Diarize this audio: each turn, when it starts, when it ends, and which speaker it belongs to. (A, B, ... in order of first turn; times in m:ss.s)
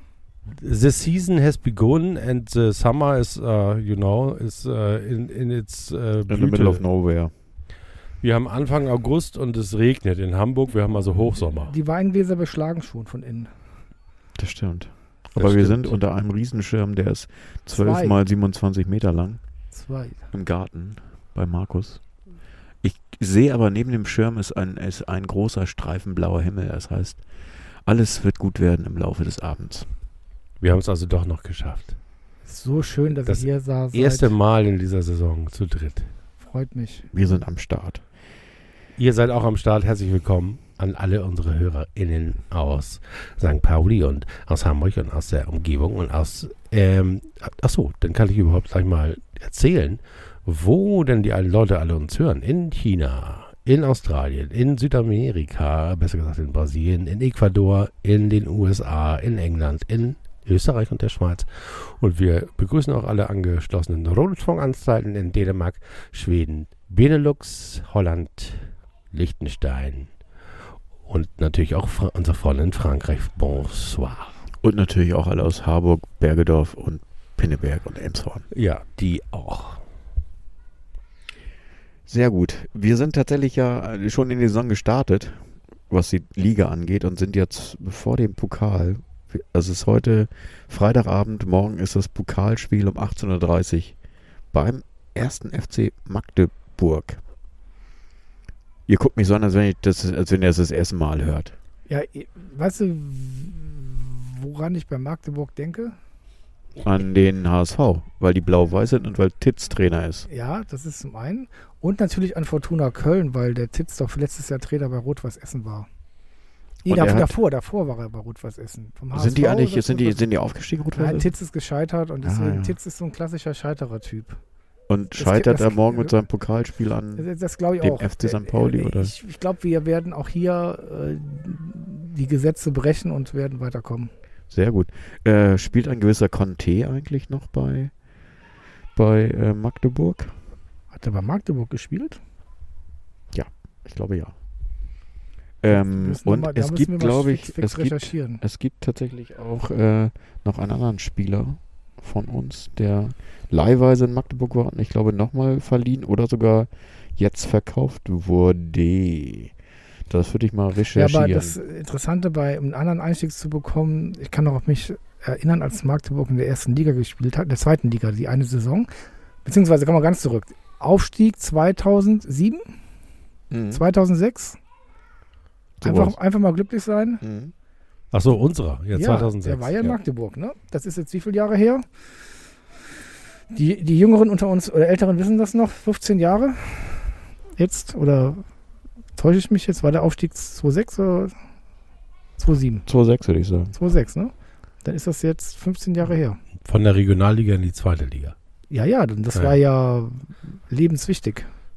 0:00.6-0:06.8 A
0:06.3-0:07.3 B
0:08.2-0:11.7 A
0:11.7-0:13.5 C
0:14.4-0:19.4 B
0:15.4-0:15.9 A
0:17.7-0:18.2 C
0:19.7-0:20.3 C
0:20.3-0:22.0 B
0:22.8-0:27.2 B
0:27.9-0:29.9 B
0:30.6-0:32.0 A
0:32.5-0:34.3 C
0:33.3-0:36.1 A
0:36.4-0:37.1 C
0:37.1-0:38.0 B
0:39.0-1:10.1 A
1:11.1-1:14.4 A
1:14.6-1:18.4 B
1:18.5-1:19.8 A
1:22.1-1:34.0 B
1:34.5-1:37.2 B
1:38.9-1:41.6 B
1:41.9-1:46.0 C
1:46.8-1:50.3 B
1:50.3-1:55.9 C
1:56.8-2:00.3 C
1:56.9-1:57.4 B
1:59.1-2:01.3 B
2:01.0-2:04.4 C
2:02.2-2:02.8 B
2:04.9-2:07.3 B
2:05.2-2:06.1 C
2:07.2-2:14.1 C
2:07.8-2:09.1 B
2:14.5-2:17.9 B
2:19.0-2:20.3 B
2:20.9-2:22.2 C
2:23.3-2:24.4 B
2:25.6-2:39.5 B
2:25.7-2:28.4 C
2:40.1-2:41.6 B
2:41.0-2:48.9 C
2:49.4-2:52.6 C
2:53.5-2:53.8 B
2:53.7-2:54.6 C
2:55.8-2:56.2 B
2:55.8-2:57.2 C
2:57.2-2:57.5 B
2:58.1-3:00.0 A
2:59.0-3:01.8 C
3:03.5-3:08.4 C
3:09.2-3:11.3 C
3:12.4-3:12.8 C
3:12.9-3:13.7 B
3:13.7-3:14.3 C
3:14.8-3:16.4 C
3:16.6-3:18.4 A
3:18.7-3:21.5 C